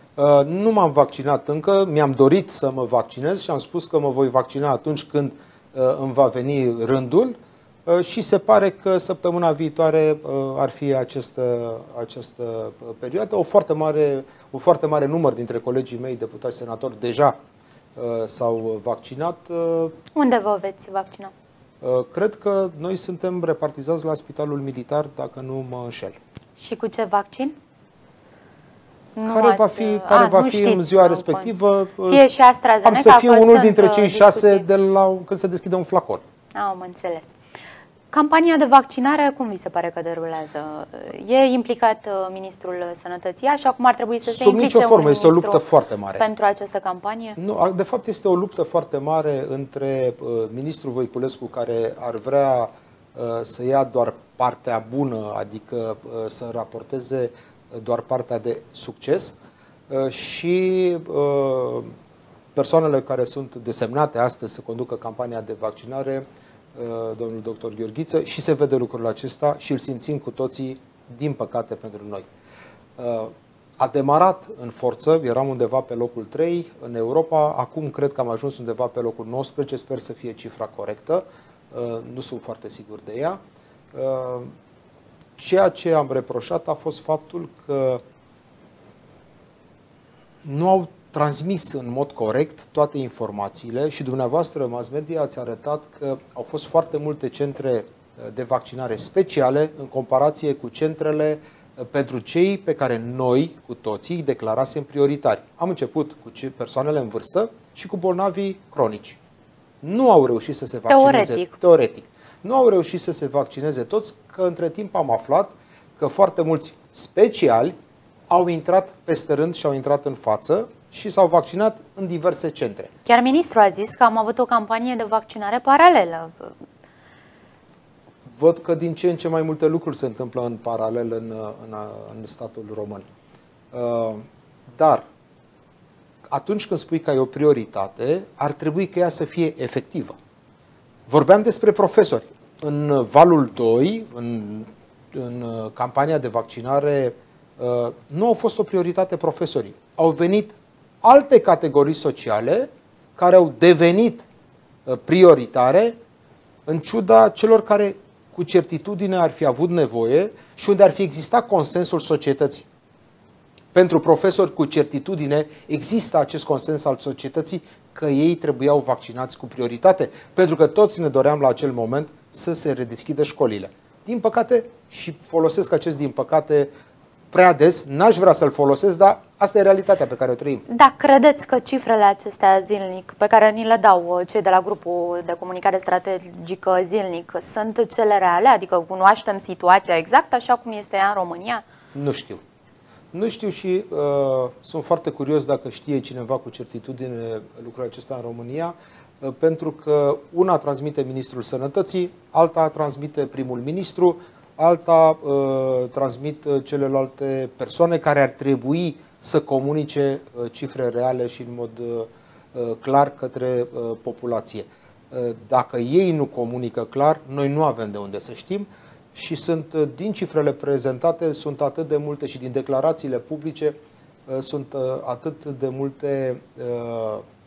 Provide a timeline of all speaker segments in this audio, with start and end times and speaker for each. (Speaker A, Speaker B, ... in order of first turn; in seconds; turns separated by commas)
Speaker A: 0.1-17.3, Speaker A: 17.9-19.9, Speaker B: 20.1-21.3, Speaker A: 21.8-26.1, Speaker B: 26.6-27.5, Speaker B: 29.1-31.5, Speaker A: 29.2-32.2, Speaker B: 32.0-34.6, Speaker A: 32.8-36.2, Speaker B: 36.5-37.4, Speaker B: 38.1-47.4, Speaker A: 44.2-46.2, Speaker A: 47.4-59.3, Speaker A: 59.9-61.9, Speaker A: 62.5-66.2, Speaker A: 66.7-72.2, Speaker A: 73.0-83.4, Speaker A: 83.9-84.5, Speaker A: 85.4-88.0, Speaker A: 90.4-109.2, Speaker A: 109.8-117.7, Speaker B: 110.9-111.5, Speaker A: 118.3-122.9, Speaker B: 123.0-126.5, Speaker A: 128.3-133.1, Speaker A: 133.7-134.2, Speaker A: 134.8-135.0, Speaker A: 136.3-140.2, Speaker A: 141.1-154.3, Speaker A: 154.8-155.9, Speaker A: 156.7-162.7, Speaker A: 163.7-176.7, Speaker A: 177.3-180.6, Speaker B: 180.7-191.6, Speaker A: 191.9-192.4, Speaker A: 193.1-223.7, Speaker A: 224.3-227.2